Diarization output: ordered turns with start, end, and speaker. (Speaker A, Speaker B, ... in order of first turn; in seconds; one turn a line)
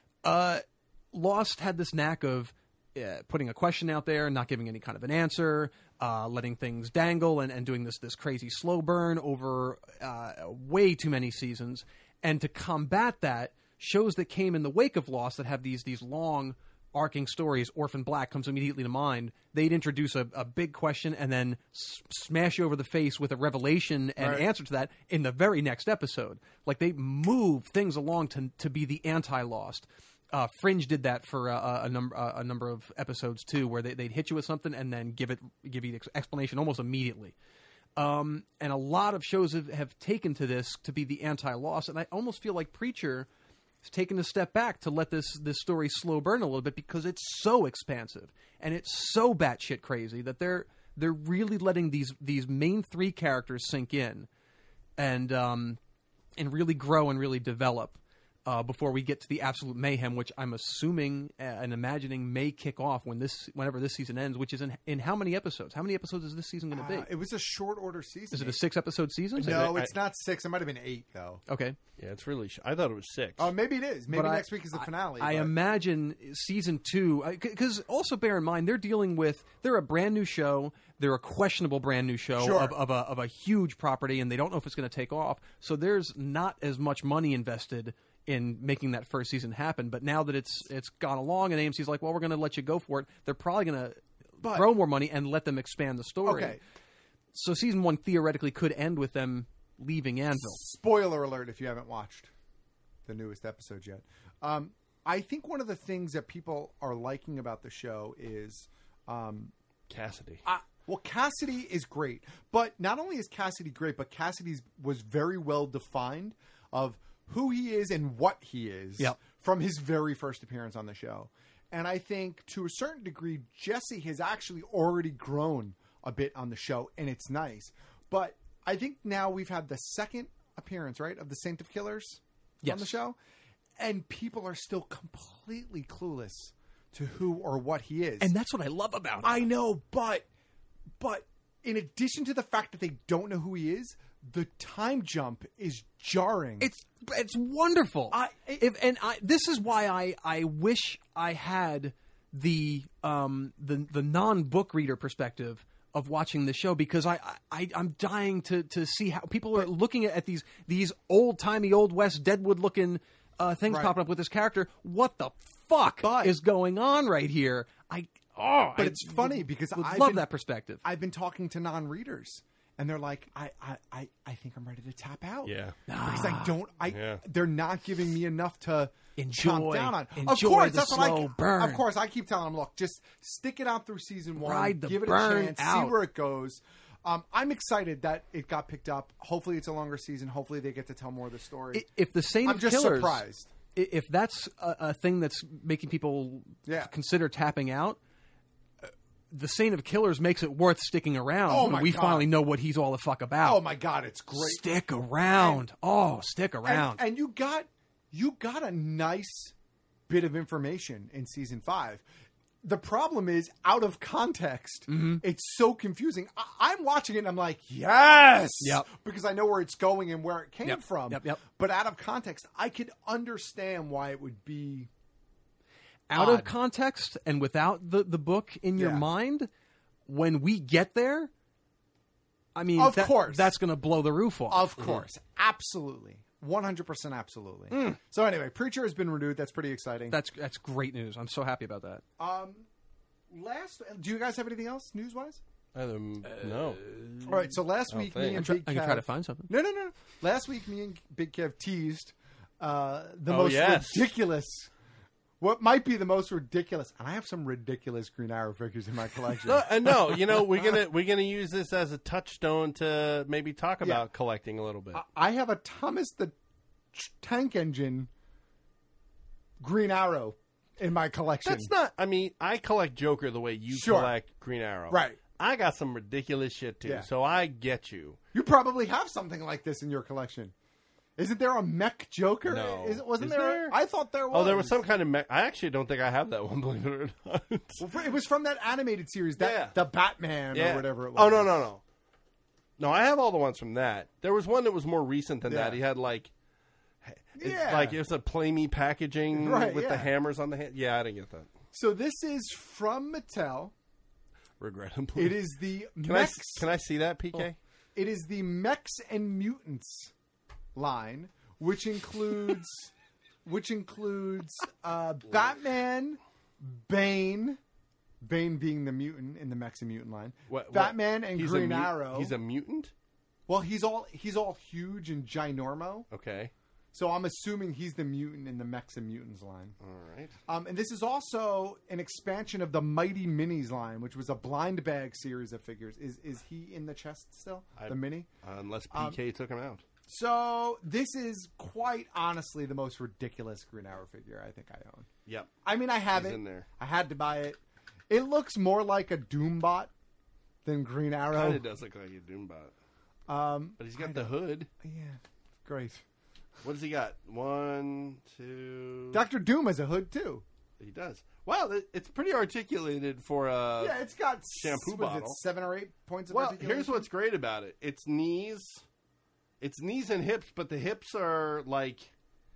Speaker A: 0.2-37.4
Speaker B: 24.2-24.5
Speaker A: 38.0-43.3
Speaker A: 43.8-54.3
Speaker A: 55.0-55.8
Speaker A: 56.4-67.1
Speaker B: 66.7-68.6
Speaker A: 68.3-69.7
Speaker B: 69.4-71.4
Speaker C: 69.4-69.9
Speaker A: 71.5-71.8
Speaker C: 72.0-73.5
Speaker B: 73.4-75.5
Speaker A: 74.1-96.6
Speaker B: 82.4-82.8
Speaker B: 94.4-94.7
Speaker B: 96.2-96.6
Speaker A: 97.3-100.6
Speaker B: 100.4-102.3
Speaker B: 103.1-109.5
Speaker C: 109.9-110.4
Speaker B: 110.5-133.2
Speaker A: 132.6-133.0
Speaker B: 133.8-138.3
Speaker A: 138.2-139.5
Speaker B: 139.2-140.3
Speaker B: 141.0-146.7
Speaker A: 146.6-170.8
Speaker B: 148.1-148.7
Speaker B: 163.7-164.0
Speaker B: 166.0-166.4
Speaker B: 168.8-170.3
Speaker B: 170.8-191.9
Speaker C: 175.4-175.8
Speaker A: 175.9-176.6
Speaker C: 176.9-177.2
Speaker A: 179.2-181.8
Speaker A: 184.4-186.0
Speaker A: 191.7-198.0
Speaker B: 192.4-193.5
Speaker B: 196.7-196.9
Speaker A: 198.8-203.6
Speaker B: 201.5-202.3
Speaker B: 203.4-204.7
Speaker A: 204.3-207.0
Speaker B: 205.3-205.6
Speaker B: 206.6-209.5
Speaker B: 210.1-212.0
Speaker B: 212.6-224.9
Speaker A: 214.9-215.2
Speaker A: 218.6-218.9
Speaker A: 220.6-221.4
Speaker A: 226.1-229.5
Speaker B: 226.1-226.5
Speaker B: 228.8-229.1
Speaker A: 230.1-231.3
Speaker A: 232.6-234.9
Speaker B: 232.8-233.5
Speaker B: 234.5-240.2
Speaker A: 237.7-238.0
Speaker A: 240.1-242.0
Speaker B: 242.2-242.7
Speaker B: 243.3-245.4
Speaker C: 245.7-247.3
Speaker B: 247.2-254.7
Speaker C: 247.9-248.4
Speaker A: 248.3-249.5
Speaker C: 253.3-254.1
Speaker B: 255.4-260.8
Speaker C: 259.4-265.0
Speaker B: 264.9-266.3
Speaker B: 266.9-268.1
Speaker B: 269.6-271.7
Speaker C: 271.4-278.2
Speaker B: 273.7-274.1
Speaker B: 274.9-275.2
Speaker B: 278.3-280.5
Speaker B: 281.2-284.8
Speaker C: 282.4-283.8
Speaker C: 284.3-287.9
Speaker B: 287.8-291.6
Speaker C: 289.4-289.8
Speaker C: 290.5-291.8
Speaker C: 292.8-296.3
Speaker B: 295.4-295.8
Speaker C: 297.0-301.5
Speaker B: 297.4-298.0
Speaker B: 299.3-300.1
Speaker B: 301.7-303.7
Speaker C: 304.6-305.5
Speaker B: 305.2-306.7
Speaker C: 306.0-307.6
Speaker B: 307.9-310.1
Speaker B: 310.8-312.9
Speaker B: 313.4-317.6
Speaker B: 318.2-322.4
Speaker C: 320.5-322.9
Speaker B: 323.5-326.1
Speaker C: 326.1-326.5
Speaker B: 326.9-329.8
Speaker C: 329.8-330.4
Speaker B: 330.5-338.3
Speaker C: 337.8-339.8
Speaker B: 338.9-339.2
Speaker B: 340.1-345.1
Speaker C: 345.3-345.6
Speaker B: 345.6-349.9
Speaker C: 346.1-346.7
Speaker B: 350.6-351.6
Speaker C: 351.3-352.7
Speaker B: 353.3-356.0
Speaker C: 353.8-354.7
Speaker C: 356.6-359.2
Speaker B: 359.1-360.4
Speaker C: 360.8-365.4
Speaker B: 363.8-367.1
Speaker C: 366.3-368.8
Speaker C: 369.6-372.1